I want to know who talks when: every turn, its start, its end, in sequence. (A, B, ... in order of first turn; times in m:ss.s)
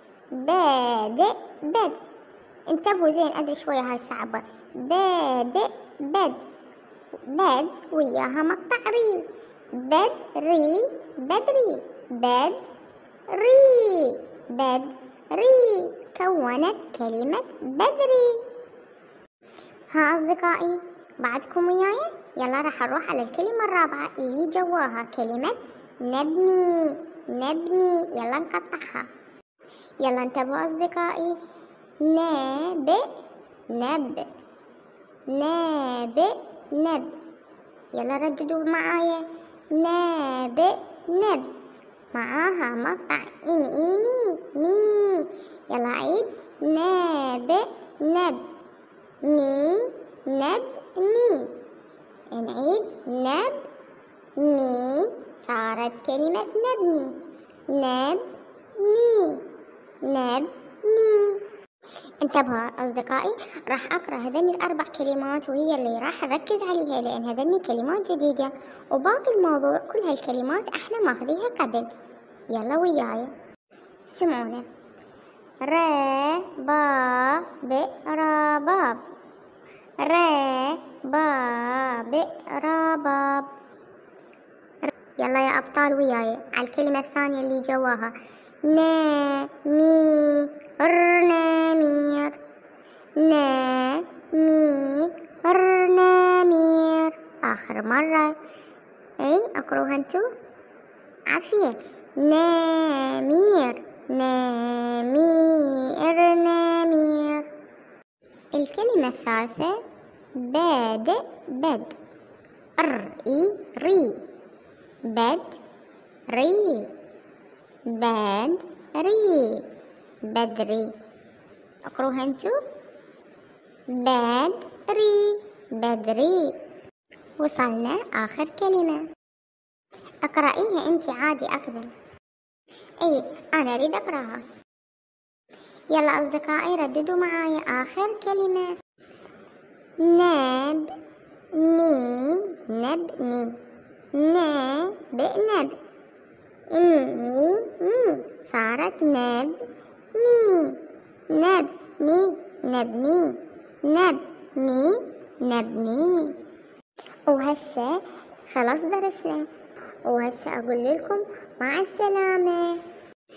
0:00.3-0:02.0 A
0:02.7-0:06.4 A
0:07.1-0:12.6 A
0:13.3-0:18.4 A
0:19.9-0:29.1 A
0:30.0-0:31.4 A
0:32.0-0:33.1 A
0:33.7-0:34.3 A
0:35.3-0:37.1 A
0:37.9-0:41.5 A
0:42.1-0:48.4 A
0:49.2-0:51.5 A
0:52.3-0:53.6 A
0:54.4-0:57.1 A
0:57.7-0:58.2 A
0:58.8-0:59.4 A
1:00.0-1:01.4 A
1:02.2-1:11.9 A
1:12.5-1:13.3 A
1:14.1-1:14.7 A
1:15.6-1:19.0 A
1:20.0-1:23.5 A
1:24.8-1:32.4 A
1:33.2-1:38.3 A
1:39.2-1:40.2 A
1:41.3-1:47.5 A
1:48.5-1:49.8 A
1:50.3-1:52.0 A
1:52.8-1:54.2 A
1:55.0-1:55.6 A
1:56.3-1:56.9 A
1:57.9-1:59.6 A
2:00.2-2:00.9 A
2:01.8-2:02.6 A
2:03.9-2:06.5 A
2:07.4-2:09.0 A
2:10.2-2:11.9 A
2:13.0-2:14.4 A
2:15.9-2:18.7 A
2:20.0-2:21.0 A
2:21.5-2:23.6 A
2:24.1-2:25.8 A
2:26.7-2:29.6 A
2:30.1-2:36.4 A
2:37.3-2:39.5 A
2:40.1-2:42.8 A